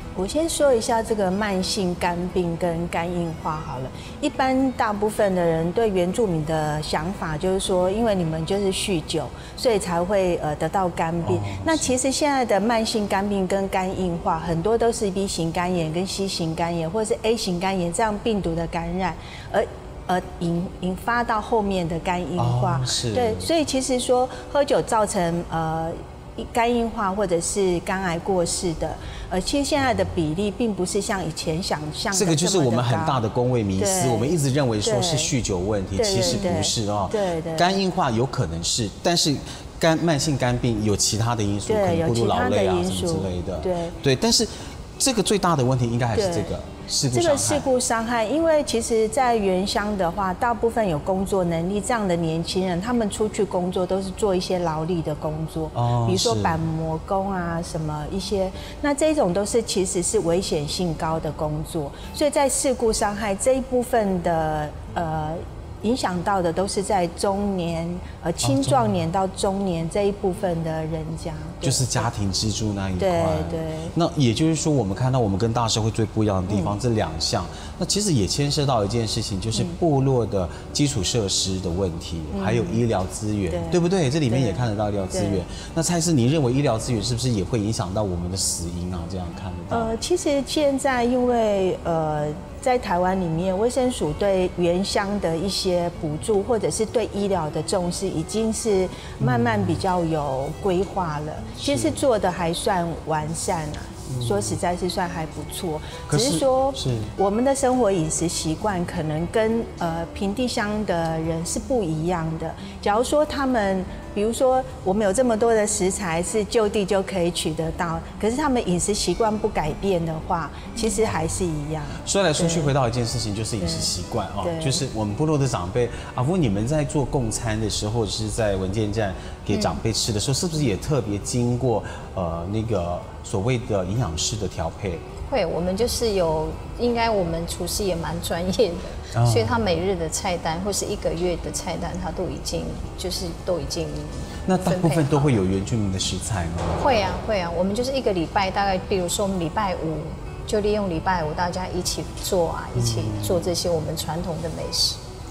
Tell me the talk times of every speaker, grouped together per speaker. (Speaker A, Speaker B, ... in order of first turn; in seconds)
Speaker A: 0.2-33.2, 33.8-35.3, 36.0-37.8, 41.7-44.0, 46.1-46.5, 47.1-72.1, 73.0-73.9, 76.5-76.8, 82.3-82.8, 83.5-85.4, 89.7-122.7, 123.6-124.8
Speaker B: 11.2-11.9, 22.4-23.5, 32.1-47.7, 55.8-56.6, 68.4-69.0, 71.6-89.9, 99.2-99.8, 101.6-102.0, 104.1-104.6, 106.1-107.1, 122.0-135.1, 139.1-139.6, 144.5-147.0, 152.8-153.5
Speaker C: 135.3-145.4, 146.8-155.0